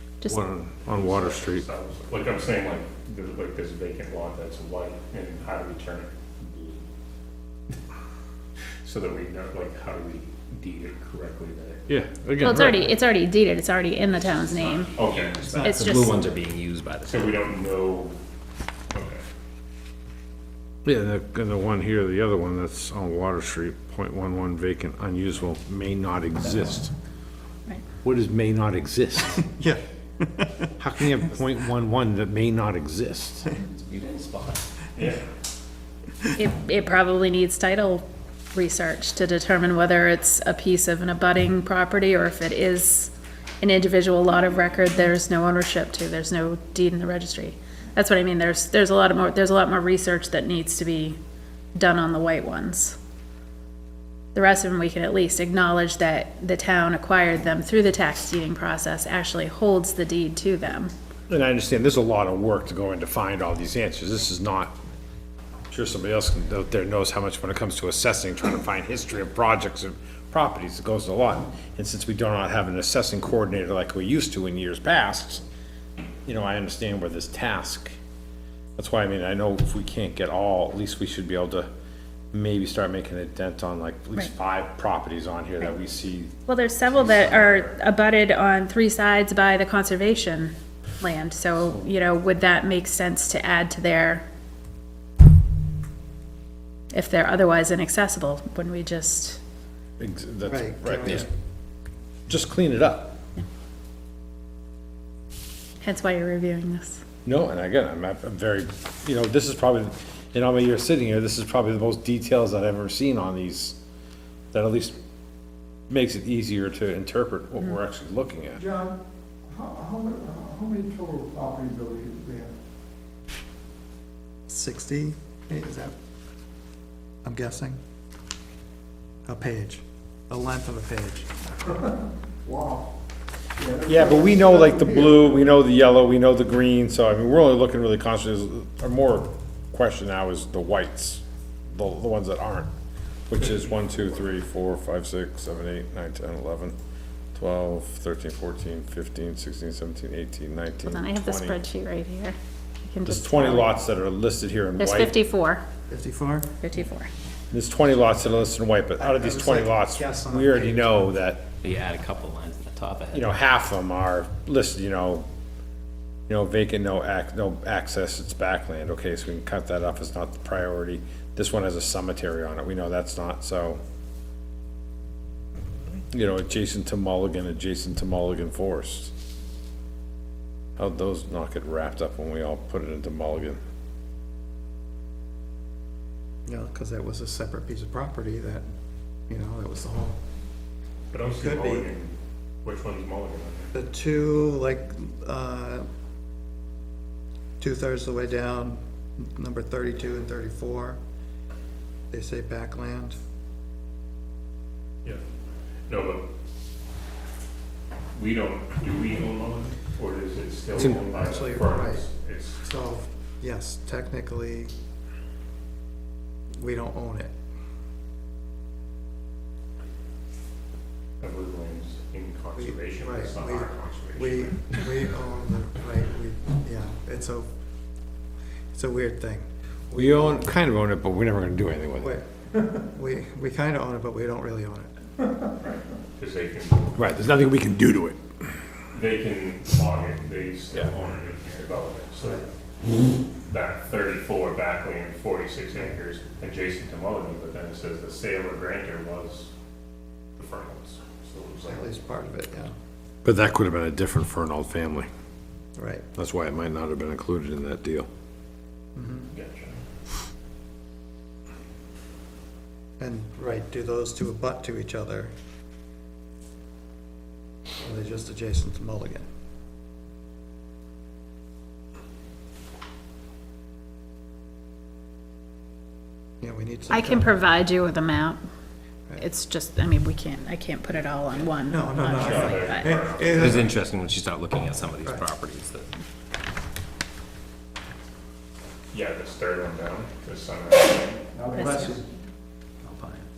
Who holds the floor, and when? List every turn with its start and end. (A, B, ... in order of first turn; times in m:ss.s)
0:00.2-0:00.5 A
0:00.3-0:01.7 B
0:00.8-0:06.8 C
0:08.8-0:11.9 C
0:11.9-0:13.0 B
0:12.4-0:14.9 A
0:14.3-0:17.4 D
0:15.0-0:15.9 C
0:15.6-0:16.3 A
0:17.1-0:18.2 C
0:18.9-0:19.2 C
0:20.8-0:26.9 B
0:28.0-0:29.5 B
0:29.6-0:30.7 E
0:30.8-0:33.5 B
0:33.6-0:34.6 D
0:35.0-0:35.2 C
0:36.4-0:51.2 A
0:51.8-0:53.0 A
0:54.4-1:00.9 A
1:01.3-1:04.8 B
1:05.7-1:15.4 B
1:16.3-1:18.0 B
1:18.8-1:21.7 B
1:22.3-1:26.3 B
1:26.5-1:34.2 A
1:26.9-1:27.7 B
1:36.9-1:39.4 A
1:40.0-1:41.3 B
1:40.5-1:41.3 E
1:42.3-1:43.2 B
1:45.8-1:47.0 A
1:47.2-1:53.8 B
1:54.5-1:55.0 B
1:55.9-1:58.6 B
1:58.6-1:59.0 F
1:59.5-2:02.5 F
2:04.5-2:05.9 E
2:07.2-2:07.8 E
2:09.3-2:11.3 E
2:12.5-2:12.9 F
2:13.6-2:15.2 F
2:13.8-2:22.7 B
2:23.3-2:26.8 B
2:27.4-2:31.6 B
2:30.8-2:33.7 A
2:33.0-2:35.1 B
2:34.8-2:35.6 A
2:35.9-2:36.6 E
2:36.6-2:37.1 A
2:37.5-2:41.5 B
2:39.0-2:41.1 E
2:41.6-2:43.3 D
2:43.1-2:45.3 B
2:46.3-2:53.8 B
2:56.1-2:59.1 B
3:00.8-3:03.6 B
3:06.5-3:08.7 E
3:09.3-3:10.2 E
3:11.1-3:13.7 C
3:11.3-3:11.9 E
3:13.7-3:15.9 E
3:17.6-3:21.0 E
3:22.1-3:23.2 E
3:25.9-3:26.3 C
3:28.1-3:32.6 C
3:30.8-3:32.1 E
3:32.6-3:34.7 E
3:36.5-3:37.3 E
3:41.2-3:45.1 C
3:42.6-3:47.5 E
3:48.7-3:50.5 E
3:49.9-3:52.2 B
3:52.0-3:54.9 E
3:55.6-3:57.0 C
3:57.0-3:58.2 B
3:58.9-4:02.5 C
4:03.5-4:09.5 C
4:10.4-4:11.9 C
4:11.7-4:12.7 E
4:13.2-4:15.1 B
4:15.8-4:16.1 E
4:16.2-4:18.1 B
4:19.0-4:19.3 E
4:19.3-4:19.8 C
4:23.0-4:25.3 E
4:27.8-4:29.3 E
4:36.4-4:37.4 E
4:36.9-4:38.4 A
4:39.2-4:42.9 A
4:41.7-4:43.7 E
4:42.1-4:43.8 C
4:43.3-4:45.9 D
4:48.9-4:51.2 C
4:51.3-4:52.0 E
4:51.5-4:52.0 A
4:52.8-4:53.3 D